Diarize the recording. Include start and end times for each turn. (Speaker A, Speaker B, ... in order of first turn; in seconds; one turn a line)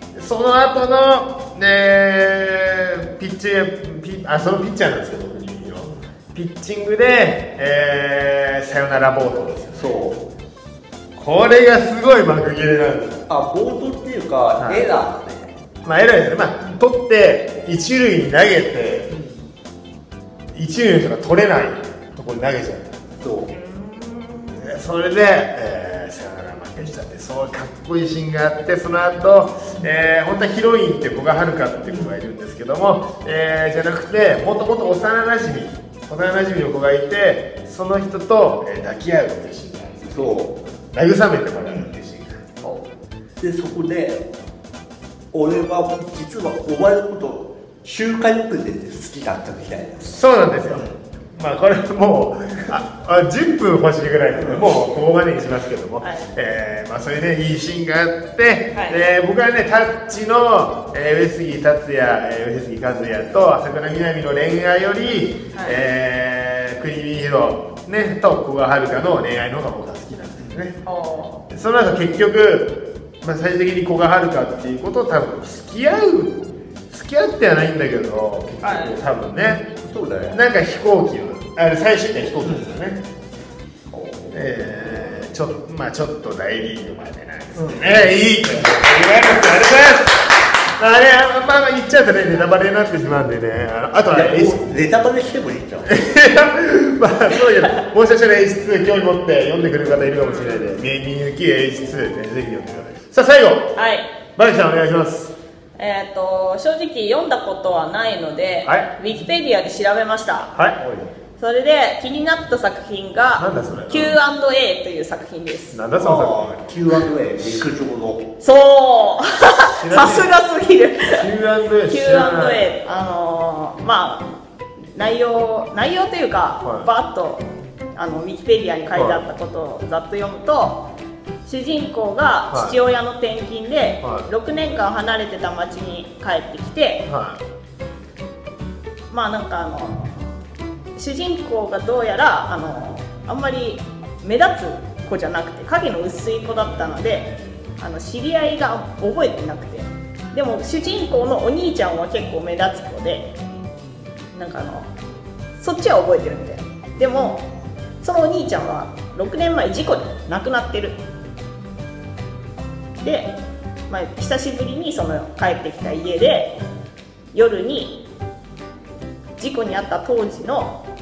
Speaker A: 0.1-10.0
Speaker B: 9.7-10.2
Speaker A: 11.2-13.2
Speaker B: 13.3-15.5
Speaker A: 14.6-14.9
Speaker A: 15.8-19.1
Speaker B: 19.1-19.4
Speaker A: 20.5-23.0
Speaker B: 23.2-23.5
Speaker C: 23.5-24.6
Speaker A: 24.5-42.4
Speaker B: 40.1-40.5
Speaker B: 41.6-41.9
Speaker B: 43.4-44.3
Speaker B: 45.3-50.1
Speaker A: 50.0-70.8
Speaker B: 50.7-51.0
Speaker B: 54.3-54.7
Speaker C: 56.0-56.3
Speaker C: 65.5-65.8
Speaker B: 70.4-70.7
Speaker C: 70.8-71.4
Speaker A: 71.5-79.7
Speaker C: 78.6-79.0
Speaker B: 79.8-80.4
Speaker A: 80.3-83.0
Speaker B: 82.4-82.7
Speaker B: 83.9-84.4
Speaker A: 84.3-90.2
Speaker B: 87.5-88.1
Speaker A: 90.8-94.6
Speaker B: 94.1-95.9
Speaker A: 95.8-103.7
Speaker C: 100.2-100.8
Speaker C: 103.8-104.1
Speaker A: 104.3-105.3
Speaker C: 105.8-110.5
Speaker A: 108.6-108.9
Speaker A: 110.5-110.8
Speaker B: 110.8-111.1
Speaker C: 111.4-115.8
Speaker A: 113.4-114.2
Speaker A: 115.7-116.5
Speaker B: 116.0-118.3
Speaker C: 118.4-121.3
Speaker A: 119.7-120.3
Speaker A: 121.0-122.6
Speaker C: 121.8-124.3
Speaker C: 124.9-130.8
Speaker A: 126.6-126.9
Speaker A: 128.9-129.2
Speaker C: 131.4-137.0
Speaker A: 132.5-132.8
Speaker A: 137.1-137.4
Speaker C: 139.1-140.1
Speaker C: 140.9-153.3
Speaker C: 154.3-154.9
Speaker C: 155.6-157.4
Speaker C: 158.0-161.0
Speaker C: 163.0-163.3
Speaker C: 163.9-166.5
Speaker C: 167.3-168.0
Speaker C: 169.4-170.8